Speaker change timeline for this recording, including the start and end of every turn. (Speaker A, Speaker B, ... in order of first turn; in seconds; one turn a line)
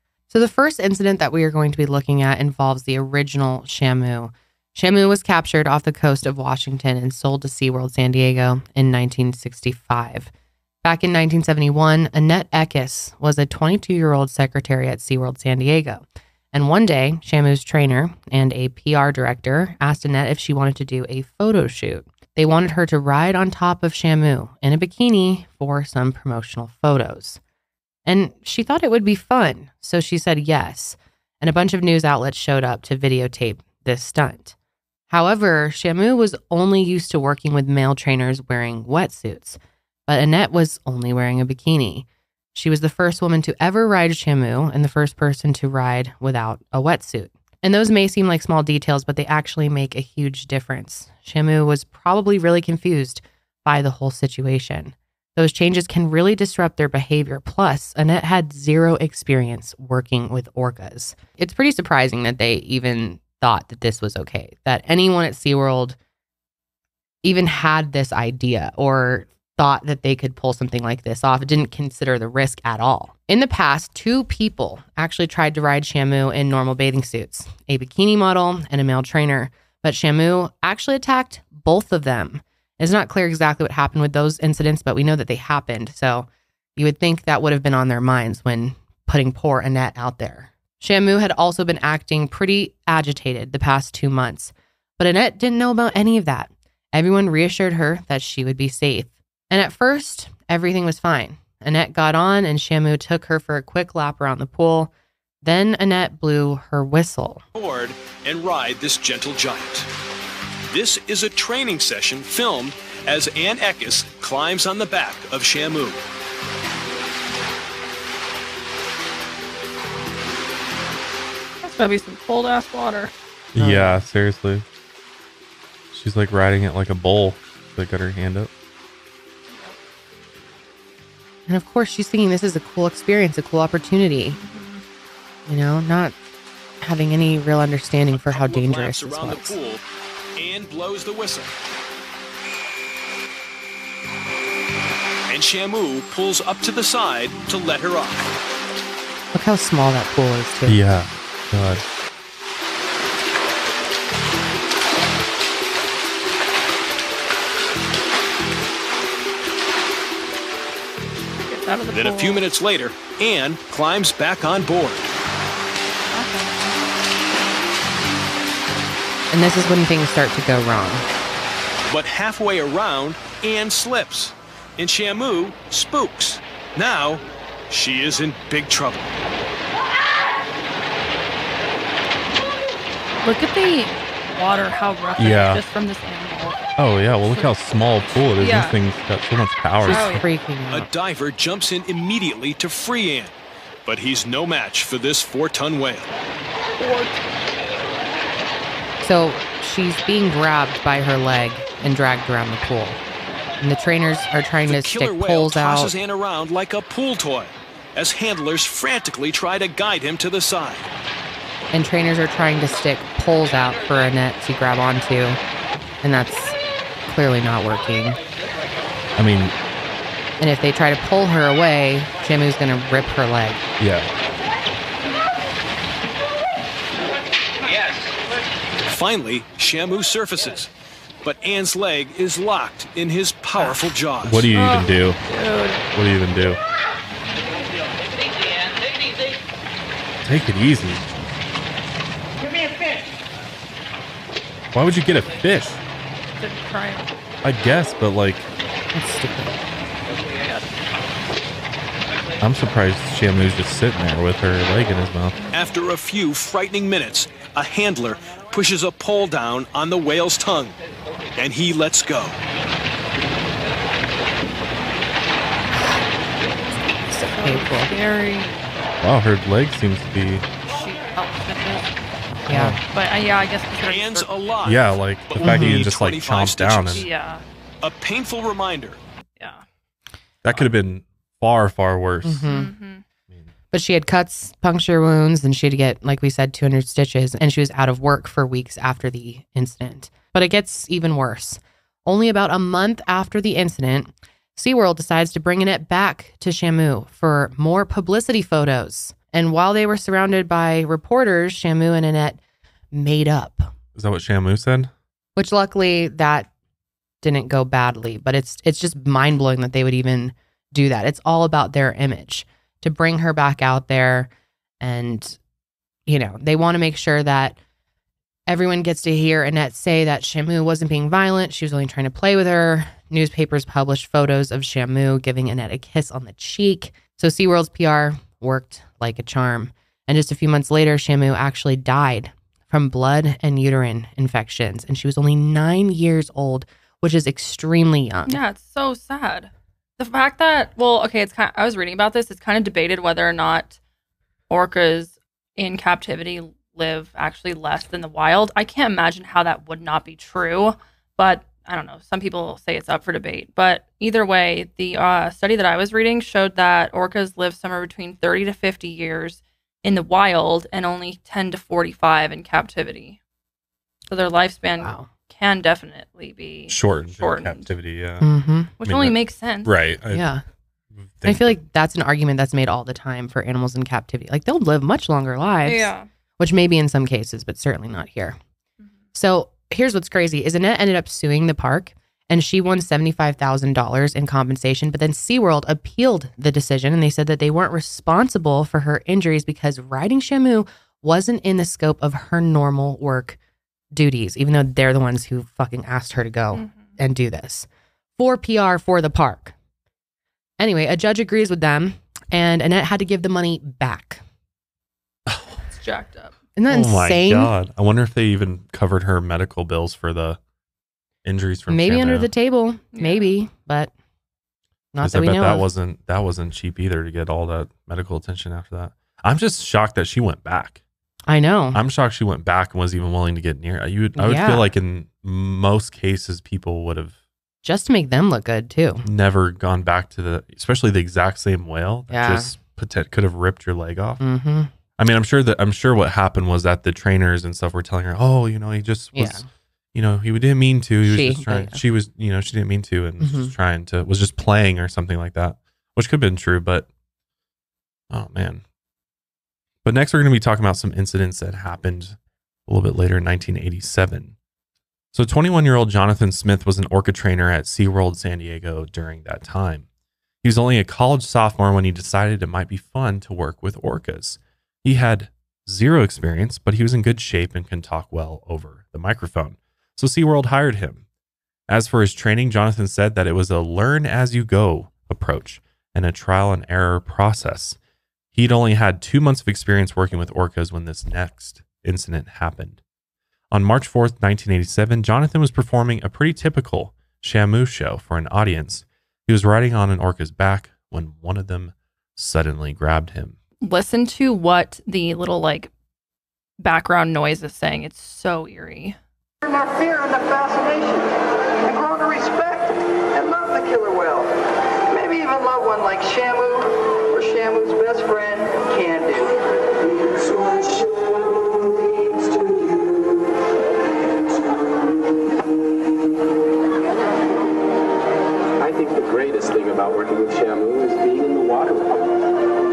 Speaker A: 0.3-10.3
Speaker A: 10.8-27.4
Speaker A: 28.1-34.5
Speaker A: 35.1-66.0
Speaker A: 67.2-104.9
Speaker A: 105.4-107.4
Speaker B: 107.5-109.9
Speaker B: 110.7-116.0
Speaker C: 121.6-123.1
Speaker D: 123.5-124.7
Speaker A: 123.6-124.0
Speaker D: 125.9-128.5
Speaker C: 129.5-129.8
Speaker A: 131.5-134.4
Speaker C: 134.3-134.8
Speaker A: 135.5-136.2
Speaker A: 136.8-139.6
Speaker B: 138.1-139.8
Speaker B: 140.4-141.5
Speaker B: 145.3-148.3
Speaker A: 149.3-150.8
Speaker D: 150.7-151.8
Speaker C: 161.5-162.4
Speaker B: 161.9-165.1
Speaker C: 166.1-166.5
Speaker A: 169.3-171.1
Speaker B: 171.9-179.1
Speaker C: 183.2-186.7
Speaker D: 185.2-185.6
Speaker D: 186.8-190.2
Speaker C: 188.4-188.8
Speaker A: 189.8-190.9
Speaker C: 189.9-190.2
Speaker B: 190.7-193.3
Speaker B: 193.9-196.1
Speaker C: 196.8-197.1
Speaker A: 199.0-203.0
Speaker A: 203.6-205.9
Speaker B: 204.7-210.9
Speaker A: 211.7-215.4
Speaker A: 216.0-218.2
Speaker D: 219.2-219.6
Speaker A: 220.4-223.7
Speaker D: 223.8-224.1
Speaker B: 228.8-230.7
Speaker B: 231.2-234.5
Speaker D: 234.2-235.2
Speaker C: 234.5-235.8
Speaker D: 235.9-236.6
Speaker D: 240.2-241.0
Speaker D: 244.7-245.8
Speaker C: 246.4-247.1
Speaker D: 247.4-248.5
Speaker A: 248.9-249.7
Speaker C: 250.3-250.6
Speaker D: 252.4-255.4
Speaker B: 255.5-260.8
Speaker B: 261.4-262.4
Speaker A: 267.1-267.9
Speaker C: 267.3-268.6
Speaker D: 269.0-270.5
Speaker C: 270.7-271.9
Speaker A: 272.5-272.8
Speaker D: 272.5-272.8
Speaker C: 272.9-274.4
Speaker B: 273.8-277.1
Speaker D: 274.6-277.1
Speaker A: 275.4-275.8
Speaker C: 276.9-277.4
Speaker B: 277.8-279.0
Speaker C: 279.4-279.6
Speaker D: 280.4-282.5
Speaker A: 282.2-282.7
Speaker C: 282.5-283.0
Speaker A: 283.7-302.4
Speaker A: 302.9-303.7
Speaker D: 303.9-304.9
Speaker A: 305.4-306.5
Speaker A: 307.2-314.3
Speaker A: 314.8-315.4
Speaker A: 316.1-317.6
Speaker A: 318.5-338.4
Speaker C: 338.3-343.8
Speaker C: 344.5-363.2
Speaker C: 364.1-367.7
Speaker A: 364.8-365.1
Speaker D: 366.7-368.3
Speaker A: 368.2-368.7
Speaker C: 368.8-369.8
Speaker D: 368.8-370.3
Speaker A: 370.1-370.4
Speaker D: 370.9-371.6
Speaker A: 371.2-378.4
Speaker C: 375.7-376.1
Speaker A: 379.1-393.4
Speaker A: 393.9-399.6
Speaker C: 396.5-396.9
Speaker A: 400.6-404.2
Speaker D: 405.3-405.6
Speaker C: 405.7-406.4
Speaker A: 406.6-407.5
Speaker D: 406.7-410.4
Speaker D: 411.2-412.3
Speaker A: 411.7-413.9
Speaker C: 412.9-413.3
Speaker A: 414.9-415.7
Speaker D: 415.0-420.8
Speaker A: 421.3-421.8
Speaker D: 421.7-427.2
Speaker A: 424.2-424.7
Speaker A: 427.6-429.1
Speaker D: 429.0-434.2
Speaker A: 432.1-432.5
Speaker A: 434.2-434.7
Speaker D: 435.0-446.9
Speaker A: 439.1-439.5
Speaker A: 441.0-441.8
Speaker A: 443.2-443.5
Speaker D: 448.1-448.6
Speaker D: 449.8-454.4
Speaker D: 455.1-459.9
Speaker D: 460.4-471.0
Speaker D: 471.7-477.8
Speaker D: 478.3-482.8
Speaker D: 483.5-493.4
Speaker C: 493.6-495.7
Speaker C: 496.6-499.0
Speaker E: 499.4-501.1
Speaker E: 501.6-504.4
Speaker E: 504.9-509.4
Speaker E: 510.0-511.2
Speaker E: 512.1-512.9
Speaker F: 518.6-522.3